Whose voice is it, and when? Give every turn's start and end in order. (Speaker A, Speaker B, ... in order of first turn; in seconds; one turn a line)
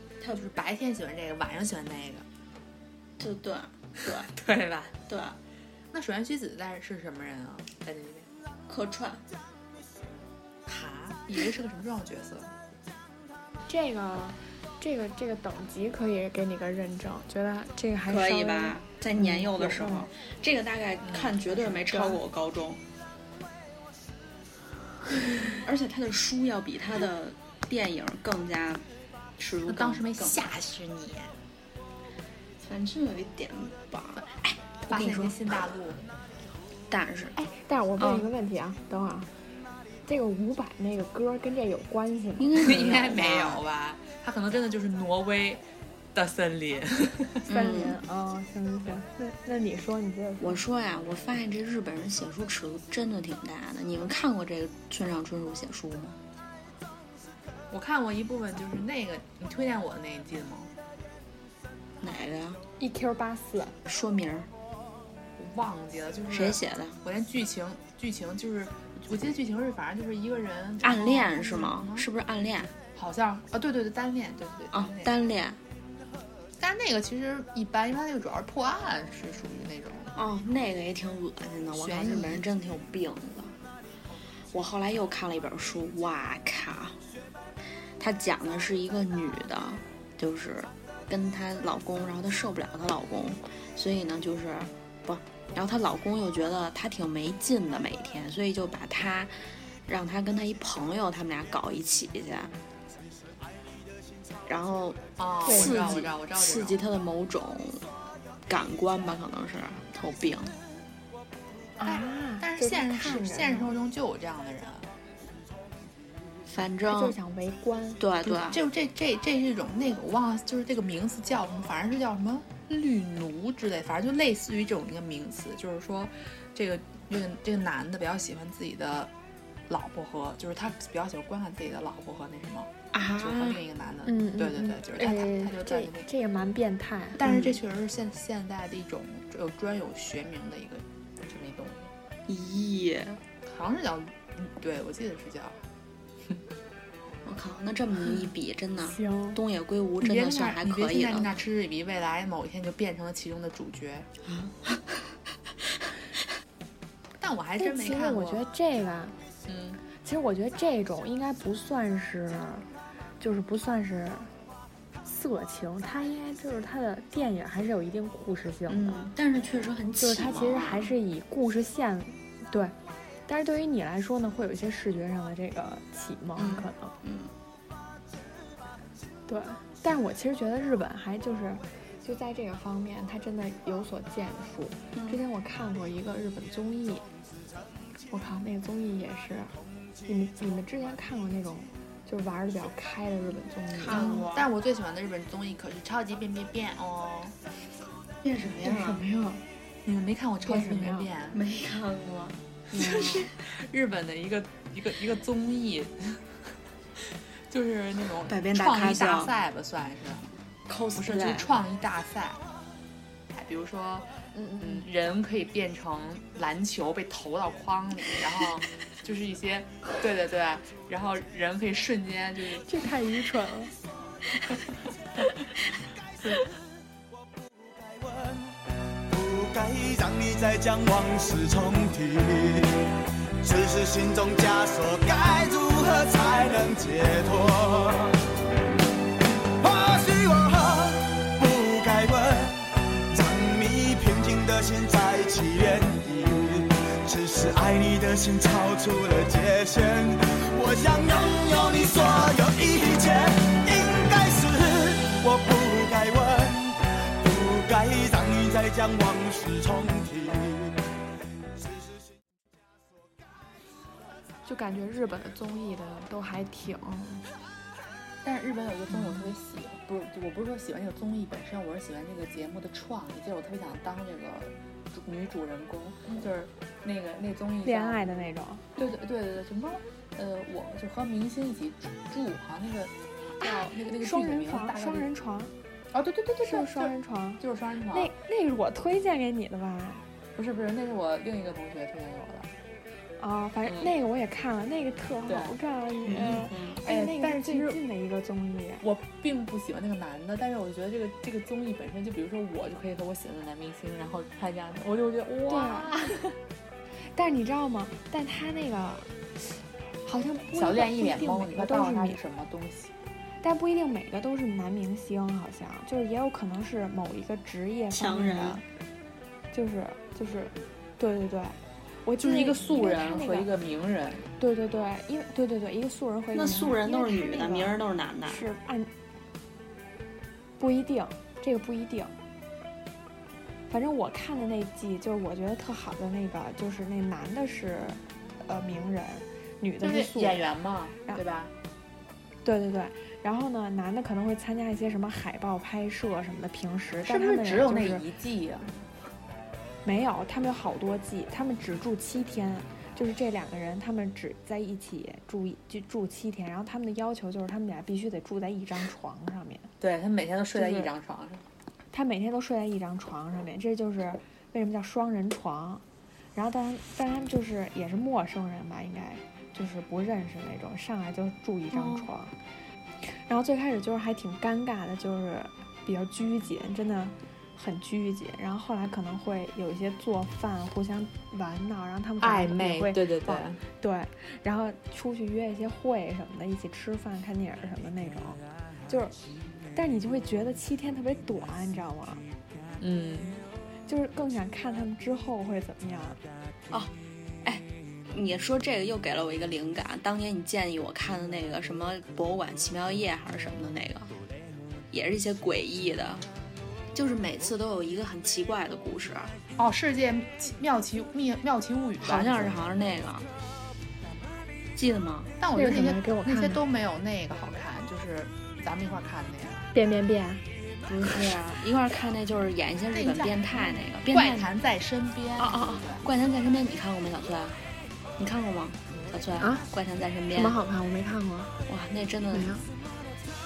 Speaker A: 0.2-0.5
Speaker B: 0.3-2.2
Speaker A: 3.2-4.3
Speaker B: 4.3-5.0
Speaker A: 5.1-5.4
Speaker B: 5.9-8.3
Speaker A: 8.7-9.2
Speaker B: 10.7-12.5
Speaker C: 13.7-20.1
Speaker A: 18.1-22.8
Speaker B: 21.0-21.5
Speaker A: 25.5-28.9
Speaker A: 29.4-30.5
Speaker B: 29.7-31.3
Speaker A: 32.6-35.5
Speaker B: 34.9-36.0
Speaker A: 36.9-37.4
Speaker C: 37.4-39.3
Speaker A: 38.0-38.3
Speaker C: 40.1-42.6
Speaker A: 42.4-43.6
Speaker B: 42.6-45.6
Speaker B: 46.1-47.4
Speaker A: 47.5-48.0
Speaker C: 47.5-50.6
Speaker A: 50.4-56.2
Speaker B: 57.7-60.7
Speaker A: 62.0-62.6
Speaker C: 62.8-63.8
Speaker A: 63.9-64.5
Speaker B: 65.4-72.1
Speaker A: 66.3-67.0
Speaker A: 70.8-72.7
Speaker B: 73.0-75.1
Speaker A: 74.7-75.6
Speaker B: 76.6-80.1
Speaker A: 80.2-83.5
Speaker B: 81.7-82.5
Speaker A: 84.5-87.0
Speaker A: 88.0-99.3
Speaker A: 99.9-102.5
Speaker A: 104.5-107.9
Speaker B: 105.2-106.8
Speaker C: 105.5-106.0
Speaker A: 108.5-110.5
Speaker C: 111.8-113.7
Speaker B: 111.8-114.9
Speaker A: 116.5-117.2
Speaker C: 116.9-118.0
Speaker A: 118.0-118.6
Speaker B: 118.3-129.1
Speaker B: 129.7-136.1
Speaker A: 132.9-133.6
Speaker C: 134.1-137.2
Speaker B: 137.2-141.9
Speaker A: 137.2-137.5
Speaker A: 142.3-143.2
Speaker B: 143.4-145.6
Speaker A: 147.2-151.4
Speaker C: 148.9-149.4
Speaker B: 150.0-154.1
Speaker A: 154.2-155.2
Speaker B: 157.2-158.4
Speaker C: 157.6-159.2
Speaker B: 159.5-159.8
Speaker C: 160.0-162.7
Speaker C: 163.2-164.3
Speaker C: 165.0-169.0
Speaker A: 168.7-170.9
Speaker C: 170.0-172.8
Speaker C: 173.3-176.9
Speaker A: 176.4-177.3
Speaker C: 179.3-187.1
Speaker A: 184.9-185.2
Speaker C: 188.1-189.6
Speaker C: 190.1-194.2
Speaker A: 193.8-194.5
Speaker B: 193.9-197.4
Speaker A: 198.2-199.0
Speaker C: 198.6-199.4
Speaker B: 199.8-201.4
Speaker C: 200.4-201.1
Speaker A: 201.3-203.2
Speaker C: 202.7-203.2
Speaker B: 202.8-206.2
Speaker B: 207.5-210.3
Speaker A: 208.3-209.3
Speaker A: 210.7-211.5
Speaker B: 211.0-212.4
Speaker B: 213.3-214.1
Speaker C: 214.3-214.8
Speaker B: 214.6-222.7
Speaker C: 222.7-223.7
Speaker D: 227.8-232.9
Speaker D: 233.4-238.2
Speaker D: 239.6-260.8
Speaker C: 264.4-267.2
Speaker B: 268.2-278.1
Speaker C: 277.6-278.6
Speaker B: 278.8-285.1
Speaker C: 283.4-285.5
Speaker B: 285.9-288.1
Speaker C: 286.4-290.0
Speaker B: 290.4-292.5
Speaker C: 293.2-298.8
Speaker B: 295.3-295.6
Speaker A: 296.1-296.8
Speaker B: 296.3-297.8
Speaker B: 298.8-306.3
Speaker C: 305.5-306.1
Speaker C: 307.1-312.2
Speaker B: 310.5-312.9
Speaker C: 313.4-318.6
Speaker A: 317.9-318.6
Speaker C: 319.5-323.5
Speaker B: 322.2-324.3
Speaker C: 324.4-327.8
Speaker A: 326.3-328.4
Speaker C: 328.3-328.9
Speaker C: 330.6-332.2
Speaker C: 333.7-340.5
Speaker B: 339.8-341.5
Speaker C: 342.4-348.0
Speaker B: 347.0-348.8
Speaker C: 349.8-359.7
Speaker B: 359.8-361.4
Speaker C: 360.5-360.9
Speaker C: 361.9-365.8
Speaker C: 366.4-372.4
Speaker A: 371.7-372.1
Speaker C: 373.0-389.2
Speaker B: 382.2-383.6
Speaker C: 389.7-392.2
Speaker B: 392.8-393.4
Speaker C: 393.9-396.2
Speaker A: 396.7-404.1
Speaker A: 404.9-406.3
Speaker A: 406.9-409.4
Speaker B: 409.6-412.6
Speaker A: 412.0-413.3
Speaker A: 414.8-415.3
Speaker B: 415.4-419.7
Speaker C: 415.5-416.6
Speaker C: 419.7-420.4
Speaker A: 420.9-424.5
Speaker B: 422.9-426.1
Speaker C: 425.4-425.8
Speaker A: 426.0-427.6
Speaker A: 428.2-430.6
Speaker C: 430.3-431.6
Speaker A: 431.7-432.6
Speaker C: 432.3-432.6